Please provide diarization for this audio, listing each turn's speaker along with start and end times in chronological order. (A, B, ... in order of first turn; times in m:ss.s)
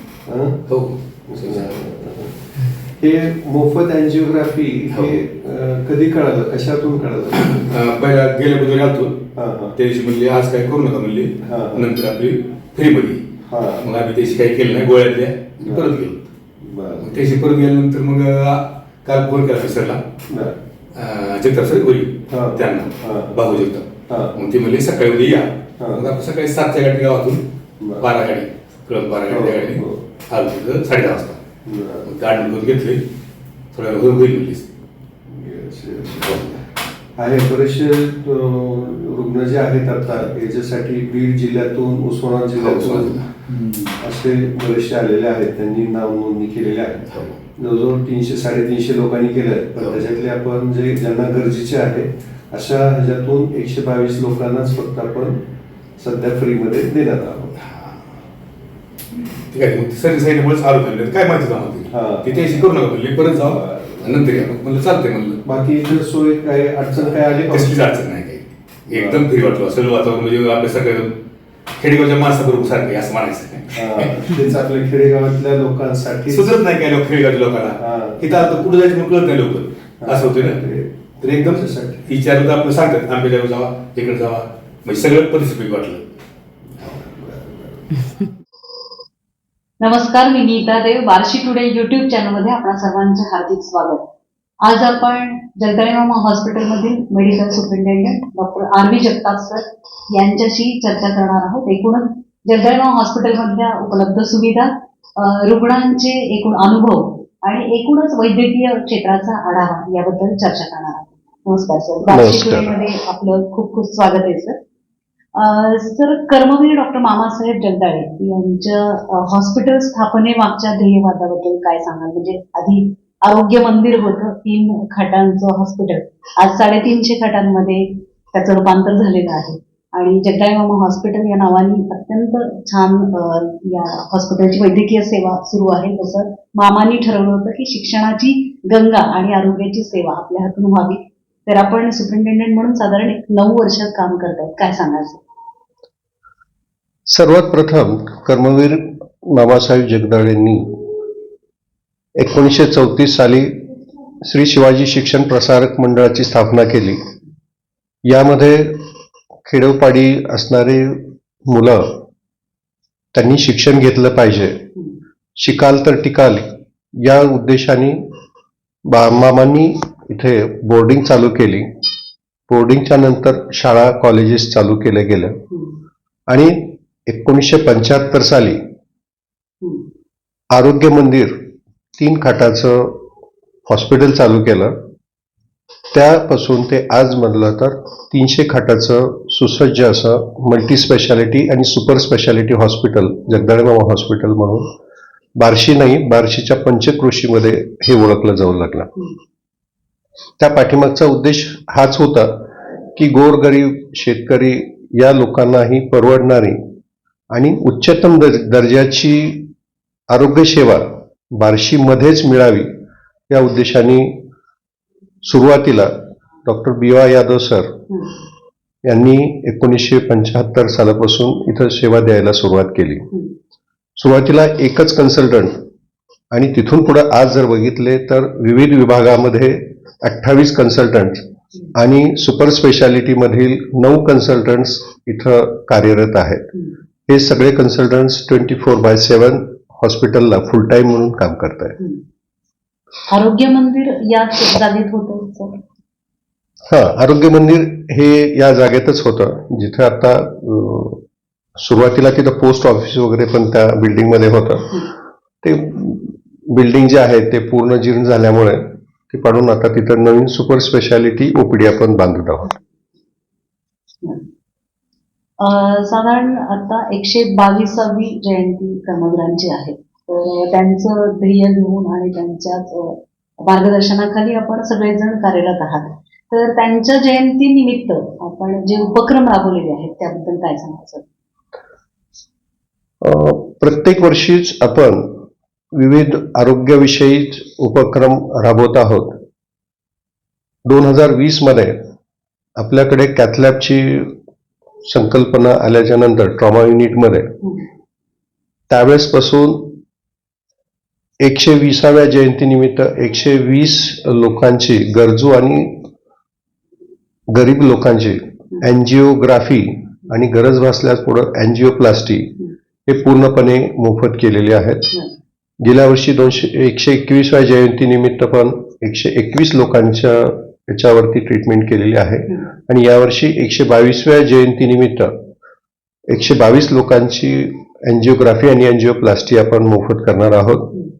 0:00.2-0:00.7 A
0:00.7-0:01.7 B
0:01.3-0:07.8 A
0:04.9-0:05.2 B
0:07.3-0:13.2 B
0:09.3-0:09.8 A
0:11.4-0:11.9 A
0:13.4-0:13.8 A
0:13.8-0:16.3 B
0:15.6-0:15.9 A
0:16.6-0:17.2 A
0:17.0-0:20.0 B
0:20.3-0:20.6 A
0:20.9-0:27.4 B
0:22.3-0:23.4 A
0:24.1-0:24.4 A
0:25.8-0:26.1 A
0:27.8-0:28.1 A
0:28.0-0:31.4 B
0:29.3-0:30.0 A
0:31.6-0:32.1 A
0:32.0-0:33.0 B
0:33.7-0:34.7 B
0:35.3-0:36.6 A
0:37.2-0:43.3 A
0:42.6-0:43.9 B
0:44.0-0:55.4 A
0:56.0-0:57.6 A
0:57.6-0:57.9 B
0:59.5-1:05.4 B
1:01.9-1:02.6 A
1:03.3-1:04.4 A
1:05.4-1:07.8 A
1:07.3-1:11.2 B
1:08.9-1:09.2 A
1:11.8-1:14.2 B
1:13.7-1:16.6 A
1:16.3-1:20.6 B
1:17.8-1:18.3 A
1:20.0-1:22.1 A
1:21.2-1:26.2 B
1:26.8-1:27.8 A
1:29.8-1:34.0 C
1:34.6-1:54.6 C
1:52.1-1:52.8 A
1:55.3-2:25.2 C
2:27.1-2:30.8 A
2:32.2-2:33.7 A
2:34.2-2:37.0 A
2:38.0-2:38.9 A
2:39.4-2:42.0 A
2:43.1-2:44.7 A
2:45.4-2:48.1 A
2:48.8-2:51.7 A
2:52.5-2:55.4 A
2:56.3-2:58.6 A
3:00.5-3:03.0 A
3:03.7-3:04.8 A
3:05.9-3:14.7 A
3:15.4-3:18.9 A
3:20.4-3:26.6 A
3:27.3-3:29.5 A
3:30.1-3:32.7 A
3:33.3-3:34.2 A
3:35.2-3:37.8 A
3:38.8-3:43.1 A
3:44.0-3:45.6 A
3:46.3-3:56.5 A
3:57.1-4:01.8 A
4:03.1-4:05.6 C
4:06.7-4:11.0 A
4:11.6-4:14.9 A
4:15.4-4:22.6 A
4:25.4-4:41.1 C
4:43.0-4:45.2 A
4:45.7-4:49.2 A
4:50.6-4:51.9 A
4:52.6-4:54.2 A
4:54.8-4:57.4 A
4:58.7-4:59.8 A
5:01.2-5:05.9 A
5:07.3-5:12.3 A
5:12.8-5:14.9 A
5:15.6-5:25.2 A
5:26.1-5:30.8 A